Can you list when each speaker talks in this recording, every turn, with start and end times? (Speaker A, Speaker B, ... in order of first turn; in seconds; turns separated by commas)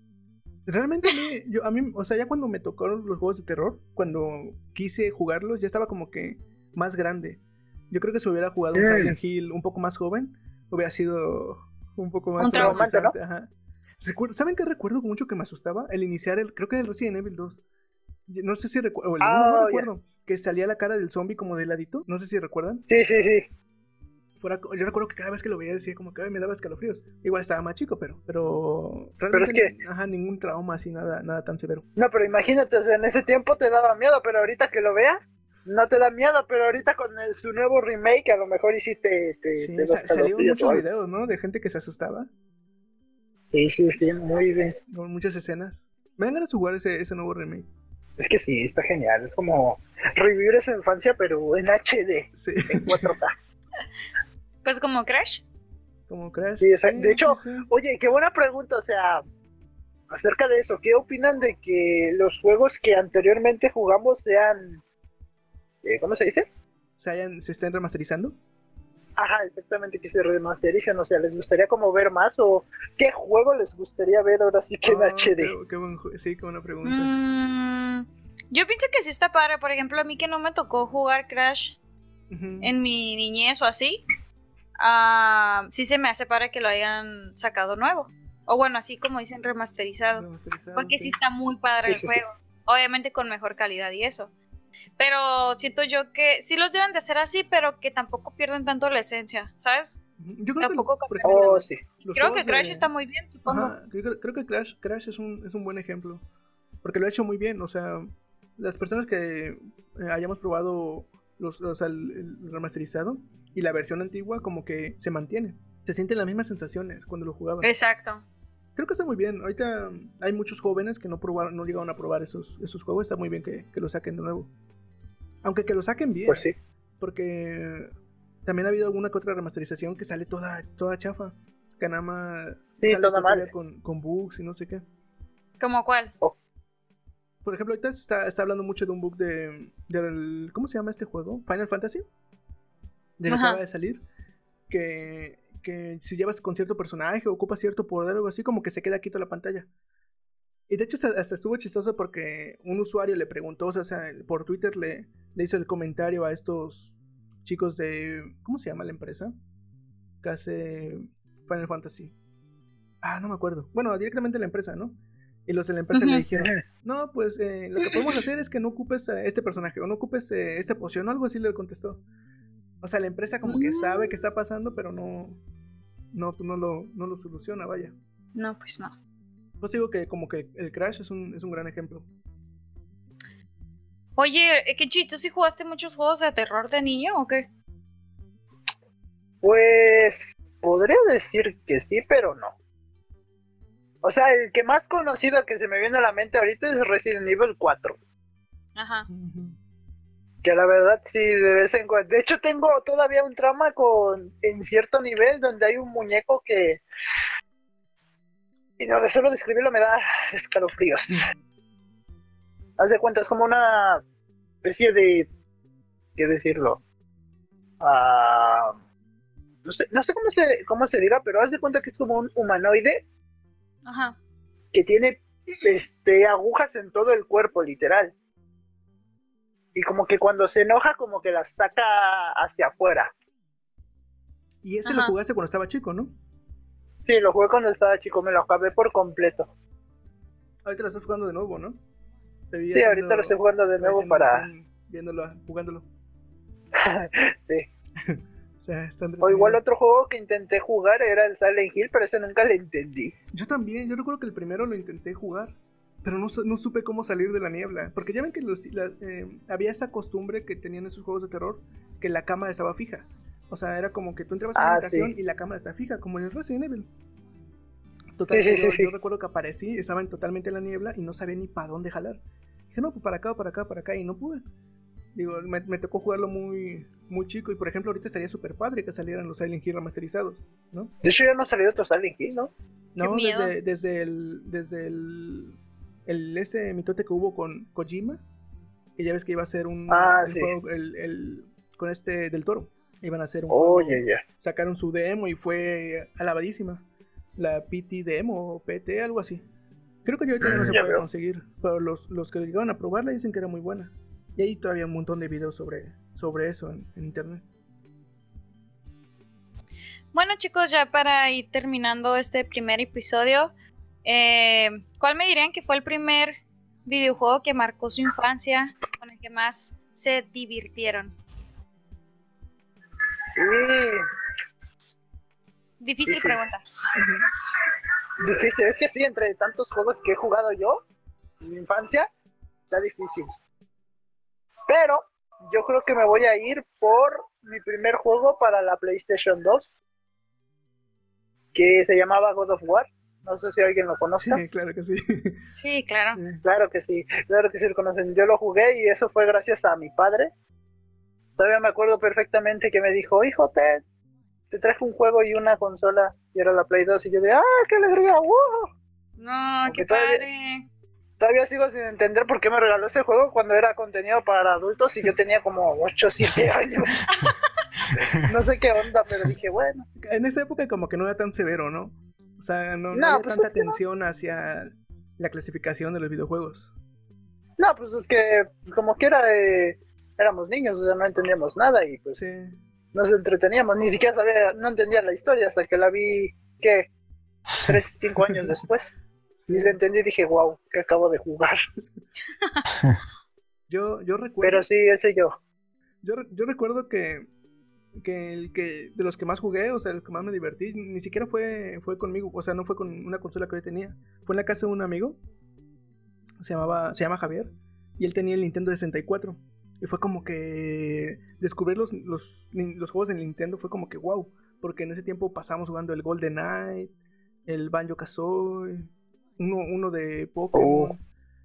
Speaker A: 0.7-17.6, Speaker B: 8.7-9.2, Speaker C: 12.4-12.8, Speaker B: 12.5-13.1, Speaker A: 18.3-22.8, Speaker B: 19.2-19.9, Speaker B: 22.9-23.5, Speaker A: 24.4-31.9, Speaker B: 29.3-29.7, Speaker B: 31.9-40.9, Speaker A: 39.6-42.3, Speaker B: 43.5-44.8, Speaker A: 44.9-47.7, Speaker B: 48.2-53.3, Speaker A: 52.4-53.1, Speaker C: 54.6-55.4, Speaker A: 56.1-57.7, Speaker B: 56.6-59.2, Speaker B: 60.1-64.8, Speaker B: 65.8-66.5, Speaker A: 67.0-68.4, Speaker B: 69.2-75.5, Speaker A: 74.8-77.2, Speaker C: 76.8-81.8, Speaker A: 82.3-82.7, Speaker C: 82.6-84.0, Speaker C: 84.8-94.3, Speaker A: 90.1-91.2, Speaker B: 91.8-92.2, Speaker C: 95.0-100.0, Speaker A: 100.2-102.9, Speaker C: 100.6-103.7, Speaker B: 101.2-101.9, Speaker A: 103.4-106.2, Speaker A: 106.8-117.7, Speaker C: 117.6-118.2, Speaker A: 118.8-124.5, Speaker A: 125.4-126.5, Speaker B: 126.3-126.5, Speaker A: 127.0-127.9, Speaker A: 128.4-134.8, Speaker B: 132.8-133.5, Speaker C: 135.6-136.1, Speaker A: 137.4-142.1, Speaker A: 143.2-144.0, Speaker C: 143.3-143.6, Speaker A: 144.7-149.7, Speaker A: 150.7-156.9, Speaker A: 157.4-159.3, Speaker A: 160.2-162.1, Speaker A: 163.0-172.0, Speaker C: 165.9-166.2, Speaker B: 166.4-166.6, Speaker A: 172.8-175.4, Speaker C: 173.4-174.1, Speaker A: 176.1-177.9, Speaker C: 178.3-178.9, Speaker A: 179.6-182.1, Speaker C: 184.2-187.4, Speaker B: 189.4-192.5, Speaker B: 194.0-198.0, Speaker C: 198.8-199.1, Speaker A: 199.1-199.6, Speaker B: 200.4-206.8, Speaker B: 208.8-211.2, Speaker B: 212.8-214.0, Speaker B: 214.6-215.3, Speaker B: 216.2-216.8, Speaker B: 217.8-218.8, Speaker B: 219.6-223.0, Speaker C: 223.8-224.2, Speaker B: 224.7-228.1, Speaker B: 229.7-233.1, Speaker A: 234.6-236.1, Speaker C: 234.8-235.1, Speaker B: 237.0-239.5, Speaker A: 240.6-241.8, Speaker A: 242.5-245.9, Speaker B: 242.7-244.5, Speaker B: 246.8-247.7, Speaker A: 248.0-249.6, Speaker B: 249.2-253.2, Speaker A: 253.3-266.9, Speaker B: 264.6-265.1, Speaker A: 268.2-274.4, Speaker B: 268.3-268.9, Speaker A: 275.1-280.9, Speaker B: 281.0-282.5, Speaker A: 282.9-288.2, Speaker C: 283.0-283.6, Speaker A: 288.9-296.9, Speaker B: 289.9-290.5, Speaker B: 293.5-294.2, Speaker A: 297.4-299.4, Speaker A: 300.0-307.4, Speaker B: 300.4-301.0, Speaker C: 310.1-313.5, Speaker C: 314.0-321.1, Speaker B: 323.4-324.0, Speaker C: 325.8-326.6, Speaker B: 326.1-326.4, Speaker A: 326.9-327.2, Speaker B: 328.2-330.8, Speaker B: 331.4-332.1, Speaker B: 332.7-333.4, Speaker B: 334.7-339.7, Speaker B: 341.5-344.4, Speaker A: 344.2-345.4, Speaker C: 345.5-346.2, Speaker A: 346.1-346.4, Speaker B: 346.4-350.3, Speaker B: 351.4-353.8, Speaker B: 354.5-358.7, Speaker C: 359.2-360.7, Speaker B: 359.6-360.2, Speaker B: 361.2-367.1, Speaker B: 368.1-369.9, Speaker A: 370.0-376.7, Speaker B: 372.9-373.8, Speaker B: 377.6-382.2, Speaker A: 382.2-382.6, Speaker B: 382.9-386.9, Speaker B: 387.6-388.9, Speaker A: 389.4-389.8, Speaker B: 389.5-391.6, Speaker A: 393.7-394.6, Speaker B: 394.4-395.4, Speaker A: 396.0-397.3, Speaker A: 398.0-405.2, Speaker A: 406.4-416.9, Speaker A: 417.4-421.0, Speaker B: 420.5-420.9